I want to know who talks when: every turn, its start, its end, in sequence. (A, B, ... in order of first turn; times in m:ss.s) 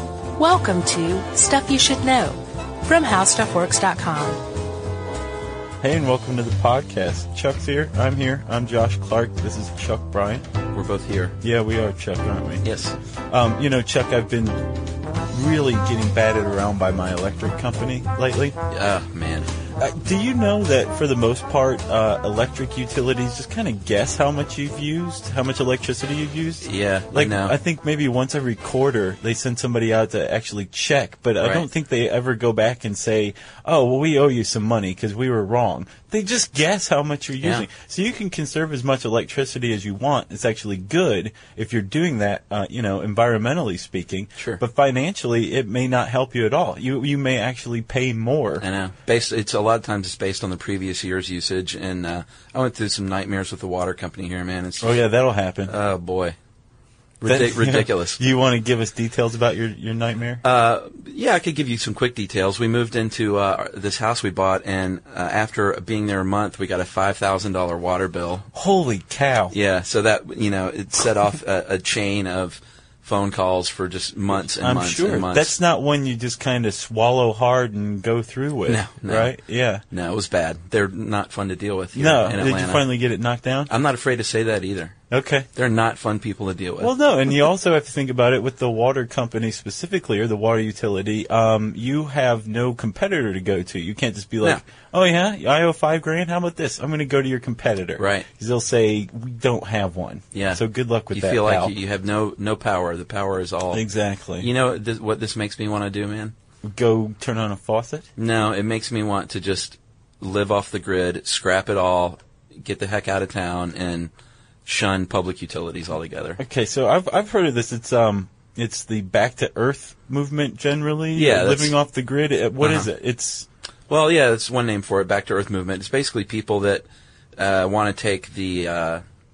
0:00.4-0:04.4 A
0:05.8-0:10.5 B
0:10.7-0:11.4 C
0:11.4-0:12.7 B
0:12.6-0:13.0 C
0:13.3-0:14.6 B
0:15.3-0:18.6 B
0:18.7-0:19.5 C
0:19.8-0:48.6 B
0:26.6-0:27.5 C
0:31.4-0:31.6 C
0:37.4-0:37.7 C
0:48.6-0:55.0 C
0:54.8-0:55.7 B
0:55.7-0:56.4 C
0:57.2-0:58.2 C
0:57.2-1:00.4 B
1:00.4-1:08.5 C
1:08.5-1:09.5 B
1:09.5-1:15.6 C
1:14.4-1:19.8 B
1:18.6-1:19.4 C
1:19.9-1:23.0 C
1:21.9-1:23.7 B
1:23.7-1:25.0 C
1:25.1-1:25.5 B
1:25.5-1:26.9 C
1:26.8-1:41.7 B
1:38.0-1:38.3 C
1:40.3-1:43.8 C
1:43.7-1:44.5 B
1:44.4-1:46.3 C
1:46.6-1:48.1 B
1:48.2-1:54.1 C
1:54.6-1:56.4 C
1:56.4-2:03.5 B
2:01.1-2:01.8 C
2:02.6-2:02.9 C
2:03.9-2:06.8 C
2:07.4-2:09.0 C